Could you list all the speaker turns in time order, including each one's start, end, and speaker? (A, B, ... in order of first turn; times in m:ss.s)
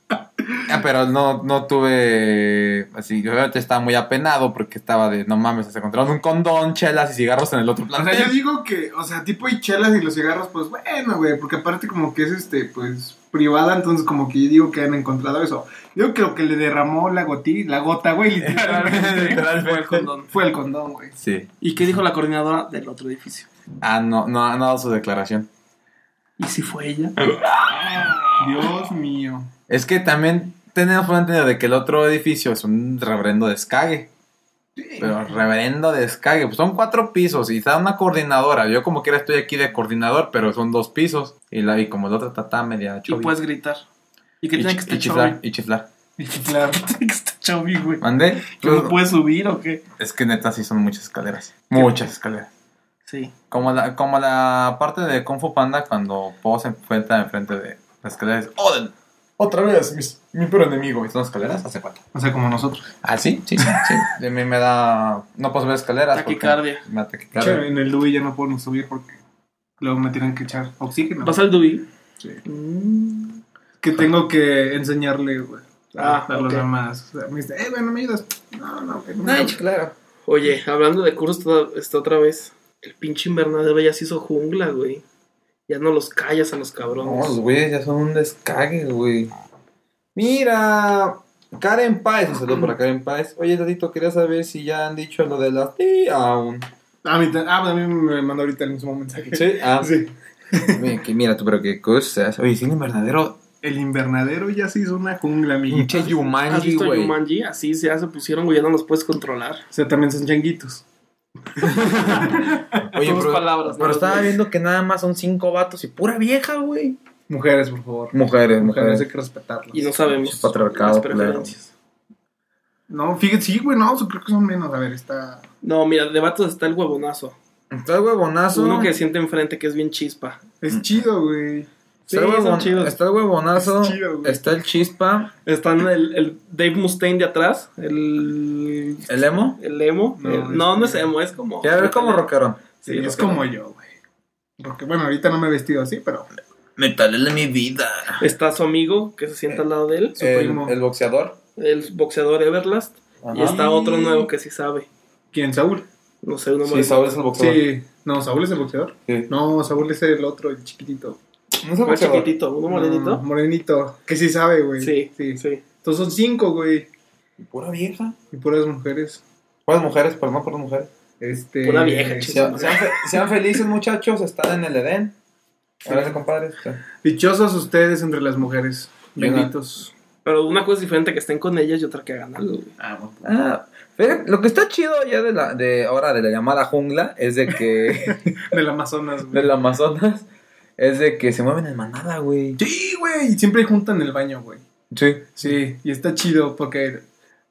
0:00.6-0:08.4 A
0:07.9-0:19.4 B
0:18.4-0:20.1 A
0:18.6-0:20.3 C
0:20.3-0:21.2 B
0:21.2-0:21.5 A
0:21.6-0:23.5 C
0:23.8-0:25.5 A
0:26.4-0:27.3 C
0:27.5-0:28.3 A
0:28.3-0:29.5 B
0:29.7-0:34.1 A
0:34.8-0:35.4 B
0:35.0-0:43.4 A
0:43.1-0:43.8 C
0:44.4-0:45.4 C
0:44.6-0:45.9 A
0:46.2-0:46.8 B
0:46.7-0:49.8 C
0:48.0-0:49.0 A
0:50.0-0:52.5 A
0:53.1-0:53.3 C
0:53.5-1:02.0 A
1:02.1-1:02.9 B
1:03.0-1:07.6 A
1:06.1-1:06.8 C
1:07.3-1:09.2 B
1:09.8-1:11.5 B
1:11.2-1:11.9 C
1:12.4-1:13.4 C
1:13.8-1:19.6 B
1:16.0-1:16.7 C
1:19.2-1:19.9 A
1:20.2-1:25.0 C
1:25.7-1:27.4 C
1:27.0-1:29.3 A
1:30.1-1:36.7 A
1:37.0-1:40.8 B
1:39.3-1:39.9 A
1:40.7-1:43.4 A
1:43.6-1:46.2 B
1:45.7-1:47.2 A
1:46.5-1:49.6 C
1:49.7-1:50.8 B
1:51.6-1:52.7 B
1:51.6-1:57.0 A
1:52.9-1:54.4 C
1:57.3-2:00.0 B
1:58.1-1:59.0 A
1:59.7-2:01.7 C
2:00.1-2:01.5 A
2:02.9-2:05.4 B
2:05.6-2:07.4 C
2:07.7-2:08.9 A
2:08.5-2:10.4 C
2:10.6-2:11.7 B
2:10.7-2:11.0 A
2:12.1-2:13.0 C
2:12.1-2:15.3 A
2:13.6-2:14.6 B
2:15.4-2:22.3 C
2:19.1-2:19.6 A
2:20.2-2:21.1 B
2:21.6-2:22.8 A
2:22.8-2:23.4 C
2:22.8-2:23.9 B
2:24.6-2:26.3 B
2:26.8-2:28.2 A
2:28.2-2:30.3 C
2:30.2-2:31.4 A
2:30.2-2:30.8 B
2:31.6-2:34.9 C
2:33.2-2:33.6 A
2:33.4-2:34.3 B
2:35.3-2:35.9 B
2:36.2-2:37.0 C
2:36.6-2:37.6 A
2:37.3-2:41.2 B
2:41.6-2:42.3 A
2:41.8-2:43.2 C
2:42.7-2:46.9 B
2:44.8-2:45.6 C
2:47.4-2:48.2 A
2:48.3-2:49.2 B
2:49.6-2:50.9 A
2:51.2-2:52.9 B
2:51.6-2:52.8 C
2:52.3-2:55.2 A
2:55.8-2:56.8 A
2:55.8-2:56.2 B
2:57.0-2:59.9 B
2:59.2-2:59.5 A
3:00.2-3:02.7 C
3:02.8-3:03.3 B
3:03.2-3:08.4 A
3:08.3-3:09.6 B
3:09.3-3:10.3 A
3:10.8-3:12.6 A
3:12.6-3:14.6 B
3:14.9-3:15.4 A
3:15.4-3:17.0 B